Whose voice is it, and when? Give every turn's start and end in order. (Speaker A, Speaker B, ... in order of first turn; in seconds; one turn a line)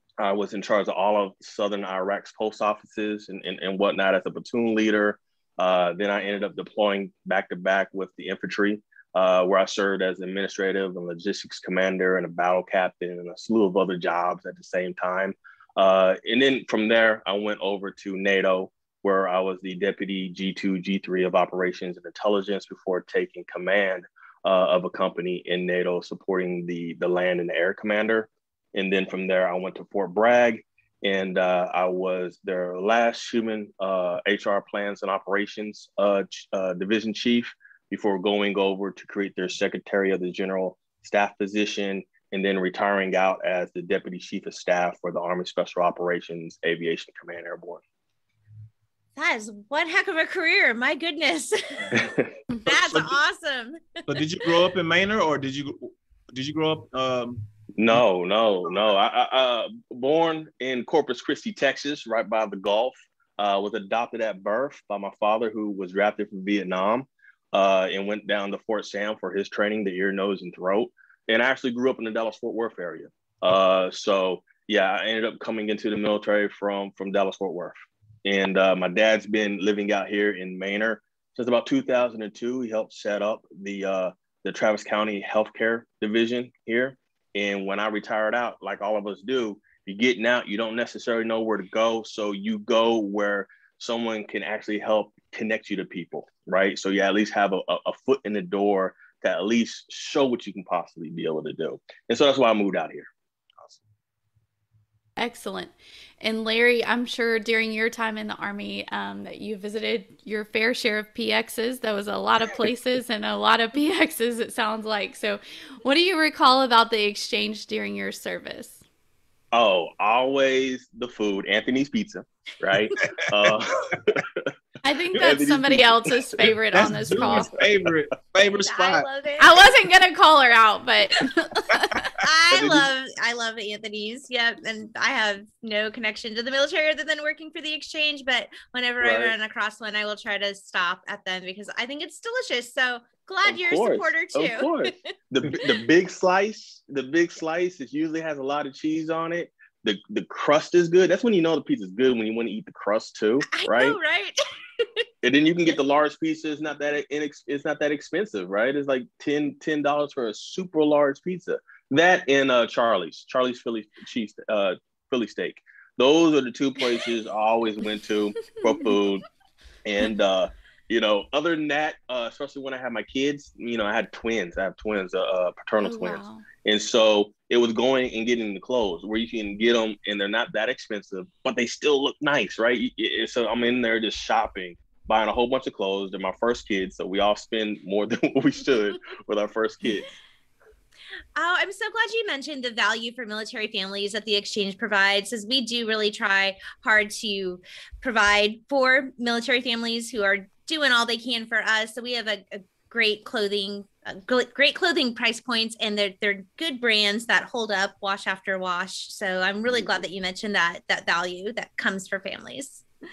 Speaker A: 0.2-47.8
Speaker B: 49.2-52.0
Speaker A: 51.9-52.3
Speaker B: 52.6-54.0
Speaker C: 52.7-53.1
Speaker C: 54.1-58.0
Speaker A: 57.8-103.1
Speaker D: 105.2-118.8
Speaker A: 119.5-124.5
Speaker D: 124.8-127.5
Speaker A: 125.1-126.5
Speaker C: 126.7-129.1
Speaker A: 127.2-127.6
Speaker B: 128.6-129.7
Speaker D: 129.4-132.2
Speaker B: 132.2-145.0
Speaker A: 132.5-132.9
Speaker A: 139.0-139.3
Speaker A: 143.4-154.0
Speaker B: 153.5-154.9
Speaker A: 155.2-169.2
Speaker A: 169.8-190.1
Speaker D: 175.8-176.5
Speaker B: 191.3-212.8
Speaker A: 209.7-210.0